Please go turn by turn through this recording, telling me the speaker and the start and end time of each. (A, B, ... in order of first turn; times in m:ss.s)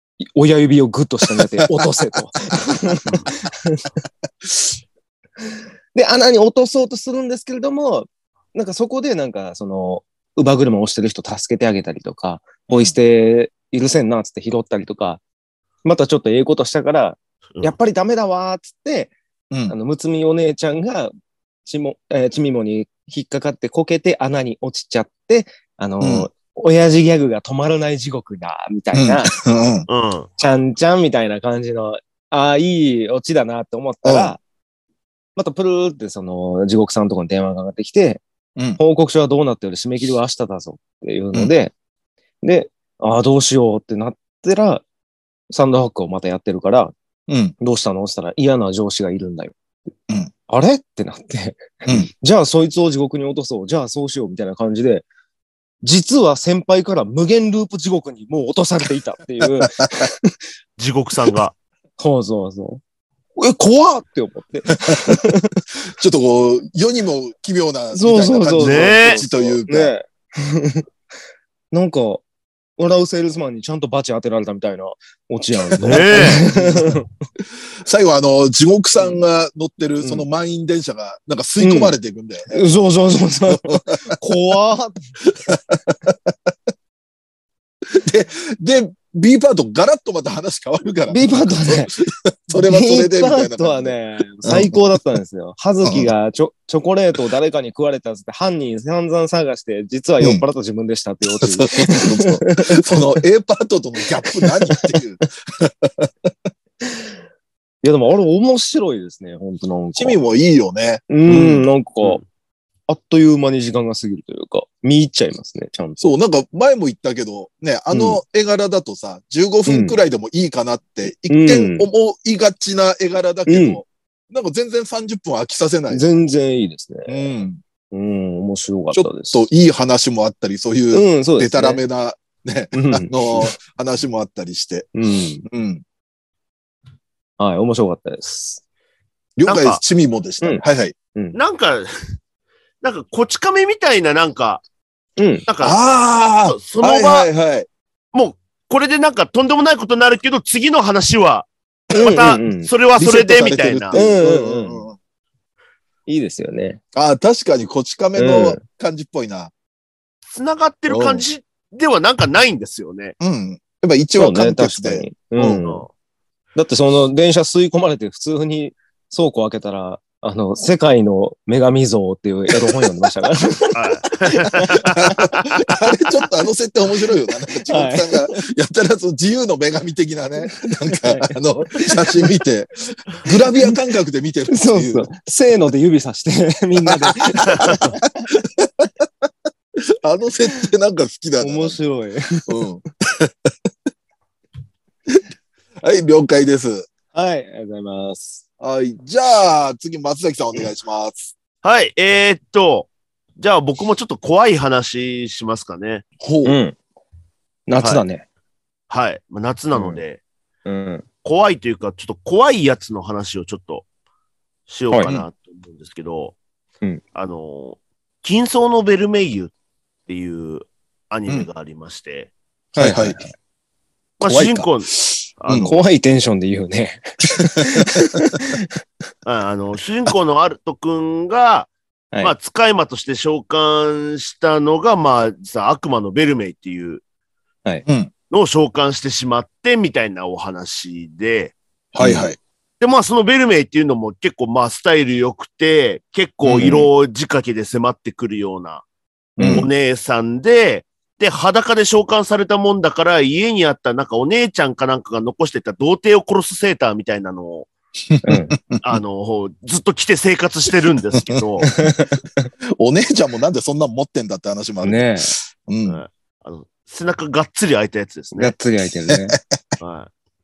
0:00.2-0:03.9 A
0:01.3-0:01.8 B
0:02.9-0:03.5 B
0:04.4-0:04.7 B
0:05.9-0:15.2 A
0:12.7-0:12.9 B
0:15.8-0:19.1 A
0:19.7-0:21.1 A
0:21.6-0:29.4 A
0:26.0-0:26.3 B
0:28.9-0:29.8 B
0:29.9-0:30.3 C
0:30.4-0:34.4 A
0:34.0-0:34.3 B
0:35.4-0:38.2 A
0:38.8-0:41.7 A
0:42.4-0:44.8 A
0:45.5-0:46.9 A
0:47.3-0:47.5 B
0:47.6-0:49.6 A
0:50.5-0:55.0 A
0:55.8-1:00.4 A
0:59.4-1:00.1 B
1:00.8-1:01.5 C
1:02.0-1:02.8 A
1:03.4-1:05.5 A
1:04.9-1:05.2 B
1:05.9-1:09.9 B
1:07.9-1:10.8 A
1:08.6-1:09.2 C
1:11.7-1:12.2 A
1:12.8-1:17.1 A
1:15.6-1:17.0 B
1:15.8-1:16.4 C
1:17.8-1:22.7 B
1:21.6-1:21.9 A
1:22.5-1:25.0 A
1:23.5-1:24.2 B
1:25.3-1:26.5 B
1:27.8-1:34.8 B
1:31.1-1:31.9 A
1:32.5-1:43.0 A
1:35.8-1:36.1 B
1:41.4-1:46.3 B
1:44.3-1:44.9 A
1:47.8-1:50.2 A
1:49.9-1:51.7 B
1:51.1-1:52.2 A
1:52.9-1:56.1 A
1:56.0-2:06.0 B
1:57.9-1:58.2 A
1:59.7-2:00.0 A
2:01.3-2:01.9 A
2:03.5-2:03.8 A
2:05.9-2:07.2 A
2:07.1-2:07.6 B
2:07.9-2:09.4 A
2:08.9-2:14.9 B
2:10.9-2:11.8 A
2:12.7-2:13.5 A
2:14.9-2:15.4 A
2:15.5-2:15.8 B
2:17.4-2:18.6 A
2:19.4-2:20.9 B
2:19.4-2:19.8 C
2:21.3-2:21.9 C
2:22.8-2:24.6 C
2:25.2-2:25.4 A
2:25.5-2:25.8 C
2:25.6-2:27.7 B
2:26.5-2:27.3 C
2:28.1-2:34.0 C
2:31.9-2:32.7 A
2:33.0-2:35.0 B
2:33.9-2:34.8 A
2:36.1-2:36.8 A
2:36.9-2:39.5 B
2:38.2-2:38.6 A
2:40.3-2:43.1 C
2:40.9-2:41.2 B
2:43.2-2:45.6 B
2:44.2-2:45.8 A
2:45.6-2:45.9 C
2:46.6-2:53.8 A
2:53.7-2:55.6 C
2:54.3-2:55.2 A
2:54.8-3:05.1 B
2:57.7-2:58.4 A
3:00.4-3:02.2 A
3:04.5-3:08.2 A
3:06.9-3:09.0 B
3:10.0-3:11.8 B
3:11.4-3:12.6 A
3:12.5-3:13.5 B
3:15.8-3:16.9 B
3:17.1-3:18.4 A
3:18.6-3:21.3 B
3:21.6-3:26.0 C
3:26.2-3:26.6 B
3:26.4-3:26.8 A
3:27.7-3:28.2 A
3:28.9-3:30.2 C
3:29.7-3:30.0 A
3:30.6-3:31.0 A
3:31.2-3:33.8 C
3:34.7-3:36.4 C
3:34.9-3:35.2 A
3:37.1-3:39.5 C
3:40.1-3:42.3 C
3:42.8-3:43.2 B
3:42.8-3:43.3 A
3:44.2-3:45.7 C
3:44.2-3:44.7 B
3:45.5-3:45.7 B
3:45.5-3:48.6 A
3:47.6-3:48.0 B
3:49.2-3:51.7 C
3:52.2-3:57.0 C
3:57.8-3:58.1 B
3:58.3-4:01.5 C
4:01.9-4:02.4 B
4:02.0-4:02.3 A
4:02.8-4:08.8 C
4:06.5-4:06.8 B
4:06.5-4:06.8 A
4:09.4-4:09.7 A
4:09.4-4:09.7 B
4:09.5-4:17.7 C
4:18.1-4:19.0 B
4:18.2-4:18.6 A
4:18.8-4:21.7 C
4:21.7-4:22.5 A
4:22.8-4:26.0 B
4:24.8-4:25.3 A
4:25.9-4:28.5 C
4:28.3-4:29.4 A
4:29.1-4:29.4 B
4:29.8-4:30.1 C